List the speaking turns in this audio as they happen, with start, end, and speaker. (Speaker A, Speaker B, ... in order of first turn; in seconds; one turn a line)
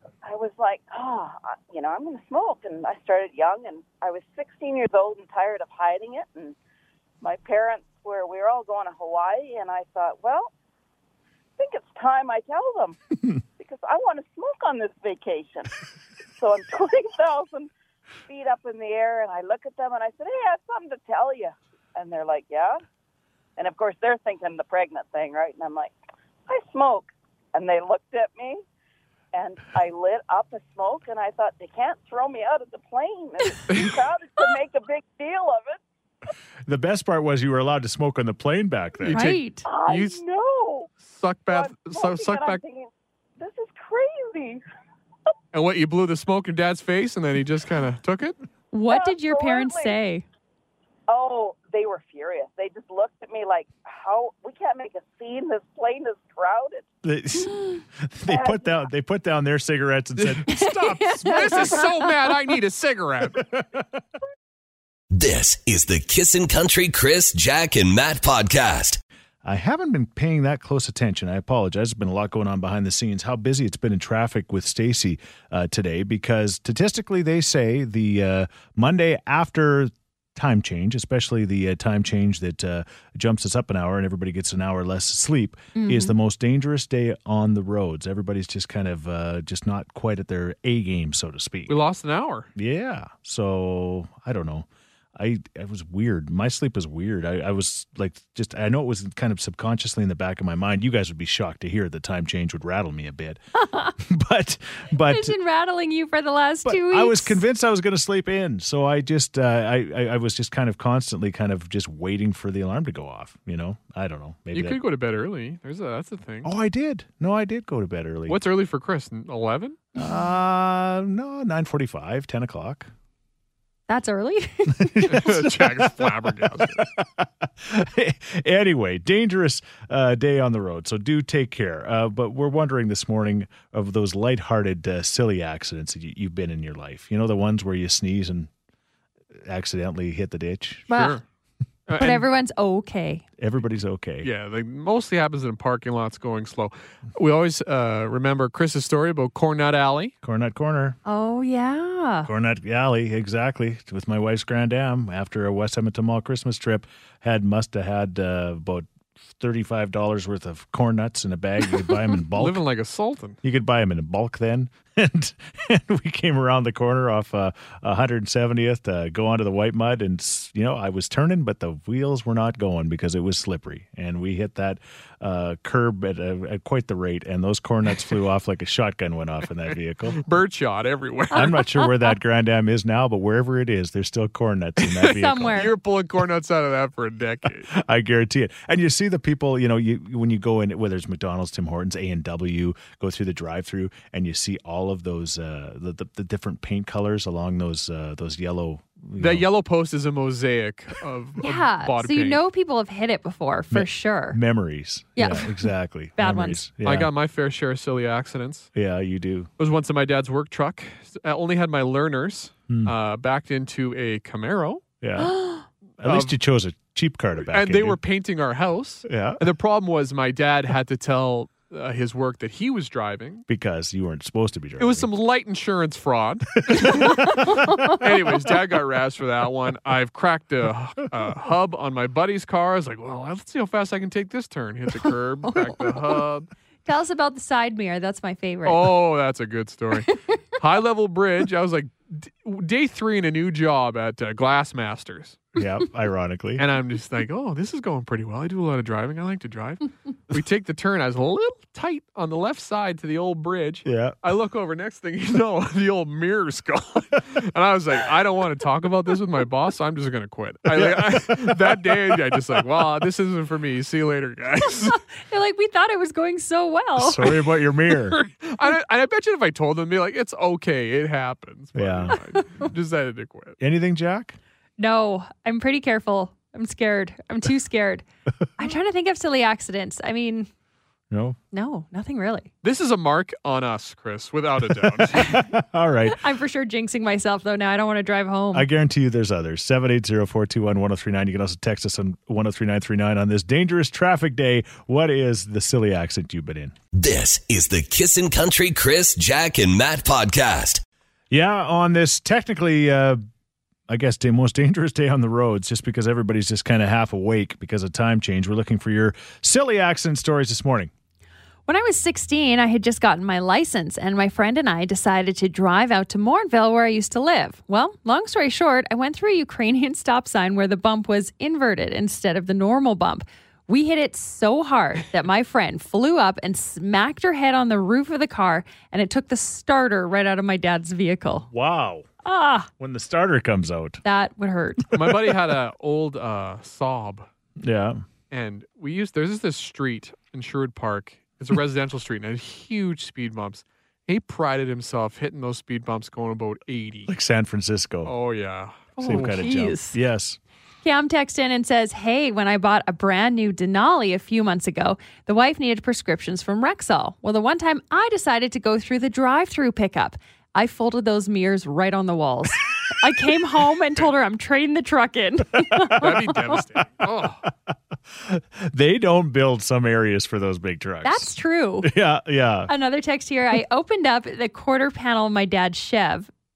Speaker A: 0.2-6.5
Speaker A: 7.2-10.5
Speaker A: 11.6-13.0
Speaker A: 13.6-15.7
Speaker A: 16.4-17.7
Speaker A: 18.3-22.8
Speaker A: 23.6-25.9
Speaker A: 26.5-28.6
Speaker A: 29.3-35.8
Speaker B: 36.7-39.4
Speaker C: 39.0-40.2
Speaker D: 39.1-39.7
Speaker A: 39.6-40.9
Speaker C: 41.0-42.6
Speaker A: 41.5-44.6
Speaker C: 45.5-48.4
Speaker D: 48.7-50.2
Speaker A: 48.9-50.0
Speaker A: 51.1-56.9
Speaker B: 57.0-61.6
Speaker A: 58.3-58.6
Speaker C: 60.2-63.4
Speaker D: 60.5-61.9
Speaker E: 65.1-69.0
Speaker B: 69.4-91.8
Speaker D: 85.8-86.1
Speaker C: 91.7-92.5
Speaker B: 92.6-103.4
Speaker D: 103.6-104.0
Speaker B: 104.0-105.4
Speaker D: 105.0-107.4
Speaker B: 106.7-114.8
Speaker C: 114.5-116.5
Speaker B: 116.4-118.4
Speaker C: 118.3-119.8
Speaker B: 120.0-122.9
Speaker D: 123.9-125.4
Speaker B: 124.8-125.5
Speaker C: 125.1-126.8
Speaker B: 126.5-138.5
Speaker B: 139.4-140.9
Speaker D: 140.9-141.2
Speaker C: 140.9-141.2
Speaker C: 141.9-142.3
Speaker D: 142.0-143.2
Speaker B: 143.4-144.3
Speaker C: 144.2-150.1
Speaker B: 150.2-151.0
Speaker D: 151.1-152.3
Speaker B: 152.2-158.9
Speaker B: 159.4-162.6
Speaker C: 162.3-163.4
Speaker B: 163.4-180.2
Speaker C: 180.2-181.7
Speaker B: 181.3-185.7
Speaker C: 184.8-187.7
Speaker D: 185.1-185.7
Speaker B: 187.7-199.5
Speaker C: 199.2-202.4
Speaker D: 201.4-204.4
Speaker B: 203.7-207.1
Speaker D: 205.2-206.6
Speaker C: 206.8-208.7
Speaker B: 208.8-209.5
Speaker C: 209.6-214.8
Speaker B: 215.0-215.4
Speaker D: 215.2-215.7
Speaker B: 216.0-218.0
Speaker C: 216.0-216.4
Speaker C: 217.5-223.4
Speaker B: 219.1-219.4
Speaker B: 223.5-225.1
Speaker C: 224.8-236.5
Speaker B: 226.7-228.1
Speaker D: 227.4-227.9
Speaker D: 235.5-236.2
Speaker D: 236.9-238.9
Speaker C: 238.7-245.4
Speaker D: 240.1-240.4
Speaker B: 245.6-246.7
Speaker C: 246.6-265.0
Speaker B: 253.8-254.2
Speaker B: 260.7-262.6
Speaker D: 265.2-267.4
Speaker B: 267.0-268.2
Speaker C: 268.1-273.6
Speaker B: 271.8-272.2
Speaker B: 273.6-274.4
Speaker D: 274.8-278.1
Speaker D: 278.6-280.5
Speaker B: 281.1-281.4
Speaker D: 281.5-282.5
Speaker C: 282.6-285.2
Speaker B: 284.8-286.2
Speaker D: 286.1-288.7
Speaker B: 288.5-296.8
Speaker E: 296.9-300.8
Speaker B: 301.3-303.2
Speaker B: 303.9-310.9
Speaker D: 311.7-331.5
Speaker B: 331.5-332.1
Speaker D: 332.2-332.7
Speaker B: 332.8-334.0
Speaker D: 334.1-334.9
Speaker C: 334.9-337.3
Speaker B: 337.6-338.0
Speaker C: 338.3-347.1
Speaker B: 347.1-348.1
Speaker C: 348.1-349.4
Speaker D: 349.0-350.0
Speaker B: 349.0-350.4
Speaker D: 350.8-366.6
Speaker C: 366.0-367.4
Speaker B: 367.7-372.7
Speaker D: 371.0-371.9
Speaker D: 372.7-376.3